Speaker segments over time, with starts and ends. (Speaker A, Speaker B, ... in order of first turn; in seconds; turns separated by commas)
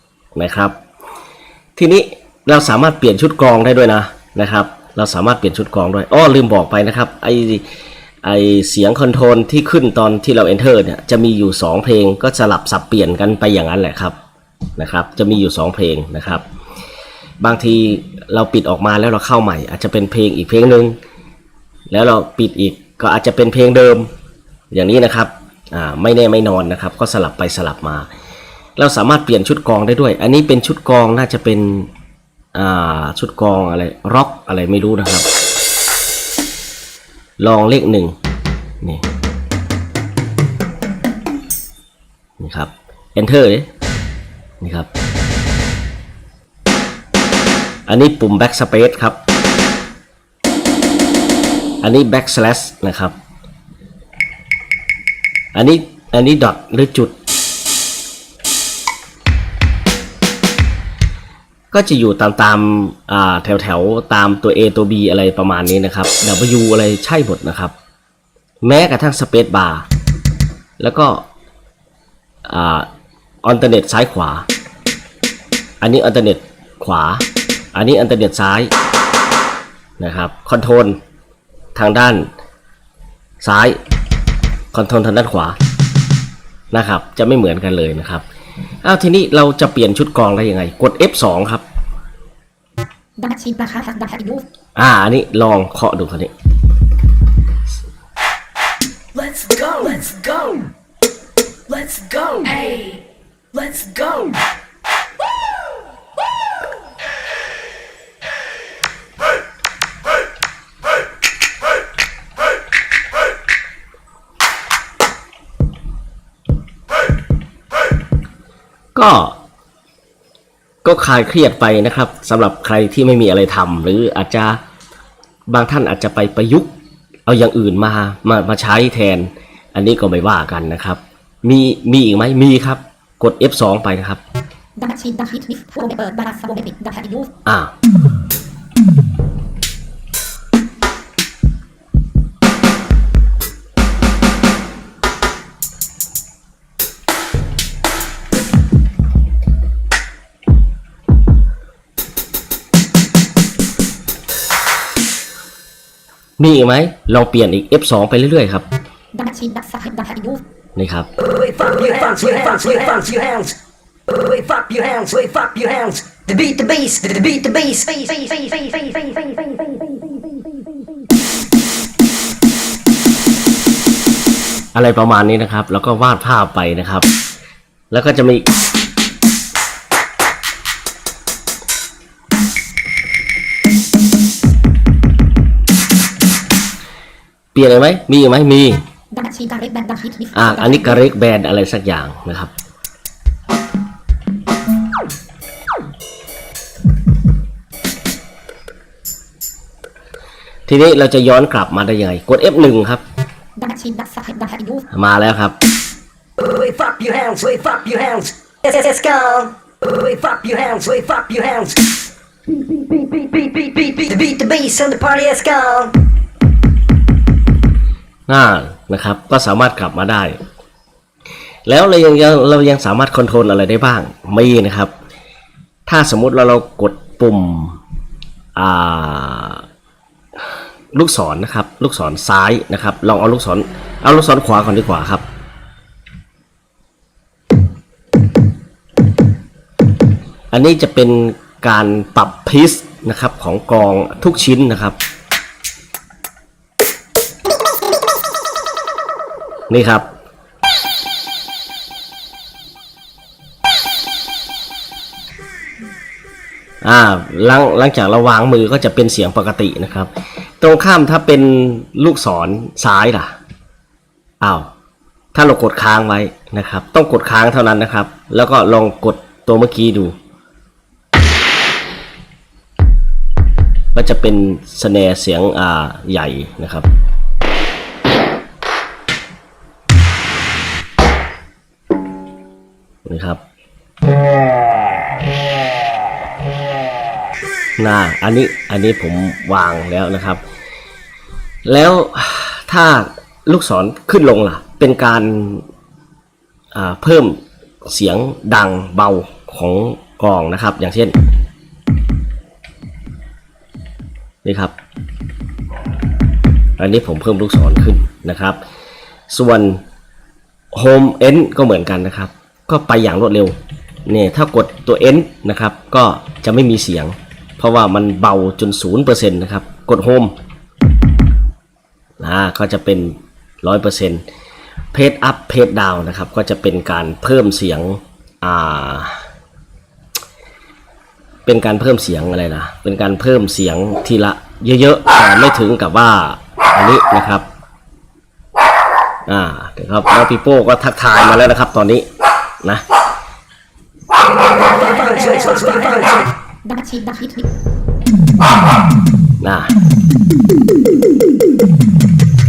Speaker A: 0.3-0.8, Speaker A: 1.8-7.6, Speaker A: 8.2-14.2, Speaker A: 14.8-16.4, Speaker A: 17.4-21.0, Speaker A: 21.9-24.1, Speaker A: 24.7-28.1, Speaker A: 28.8-31.9, Speaker A: 32.5-35.3, Speaker A: 37.4-38.1, Speaker A: 42.4-43.7, Speaker A: 44.6-44.9, Speaker A: 47.9-49.2, Speaker A: 51.8-53.1, Speaker A: 55.5-57.1, Speaker A: 61.7-67.7, Speaker A: 68.6-69.9, Speaker A: 70.8-71.2, Speaker A: 72.5-72.9, Speaker A: 73.4-74.5, Speaker A: 75.8-78.7, Speaker A: 80.0-81.0, Speaker A: 81.7-82.3, Speaker A: 83.4-83.8, Speaker A: 84.7-85.6, Speaker A: 86.7-88.2, Speaker A: 88.8-91.6, Speaker B: 93.2-94.4, Speaker A: 94.8-96.3, Speaker C: 99.2-100.6, Speaker C: 101.8-102.7, Speaker C: 103.6-104.3, Speaker A: 118.9-119.4, Speaker A: 120.8-124.6, Speaker A: 125.5-126.7, Speaker A: 127.2-134.2, Speaker B: 134.8-137.3, Speaker A: 137.4-137.7, Speaker A: 156.4-158.6, Speaker B: 159.1-160.4, Speaker A: 160.8-161.1, Speaker C: 161.2-163.6, Speaker C: 164.1-170.8, Speaker A: 174.7-177.1, Speaker A: 177.9-178.5, Speaker A: 187.5-188.8, Speaker B: 189.1-191.1, Speaker A: 190.3-192.5, Speaker A: 200.7-203.0, Speaker B: 203.6-204.8, Speaker A: 204.9-205.5, Speaker C: 206.4-211.8, Speaker C: 212.4-216.0, Speaker A: 218.3-220.4, Speaker A: 221.7-224.9, Speaker A: 225.8-227.8, Speaker A: 228.5-229.6, Speaker A: 230.9-235.2, Speaker A: 240.5-245.0, Speaker A: 249.7-250.1, Speaker A: 256.8-263.4, Speaker A: 264.4-264.7, Speaker A: 265.3-270.1, Speaker A: 273.9-276.9, Speaker A: 283.1-283.4, Speaker A: 287.8-290.4, Speaker A: 291.6-295.6, Speaker A: 296.7-301.1, Speaker A: 304.4-304.7, Speaker A: 306.8-308.6, Speaker A: 309.3-309.8, Speaker A: 310.7-320.3, Speaker A: 322.2-324.2, Speaker A: 324.9-329.2, Speaker A: 331.4-337.4, Speaker A: 339.3-342.1, Speaker C: 344.7-346.2, Speaker B: 345.1-345.6, Speaker B: 346.6-347.5, Speaker A: 349.4-349.7